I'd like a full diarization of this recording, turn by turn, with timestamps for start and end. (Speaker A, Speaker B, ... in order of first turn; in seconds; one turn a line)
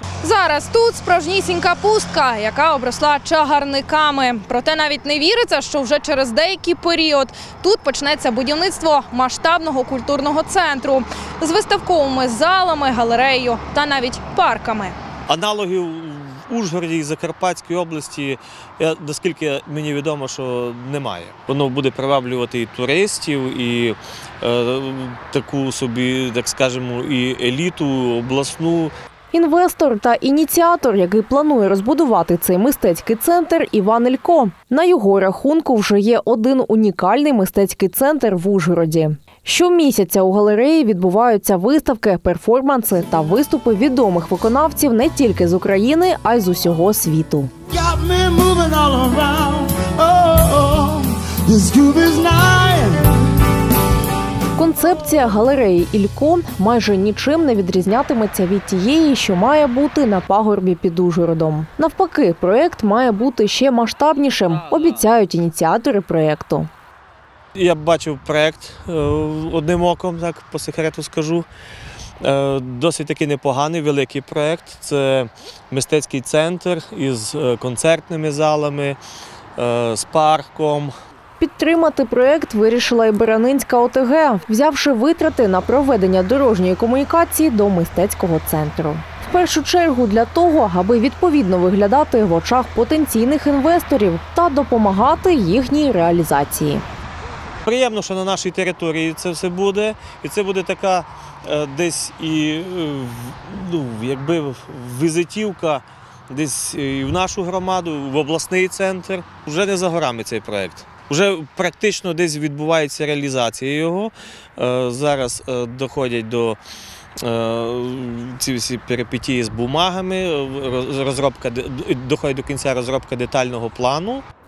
Speaker A: 0.2-14.9
Speaker B: 15.3-28.9
Speaker C: 29.3-47.5
Speaker D: 47.7-53.1
Speaker C: 54.5-66.7
Speaker B: 67.5-71.5
Speaker B: 72.2-79.0
Speaker B: 79.5-80.9
Speaker C: 81.4-96.8
Speaker B: 97.6-116.6
Speaker B: 117.2-124.2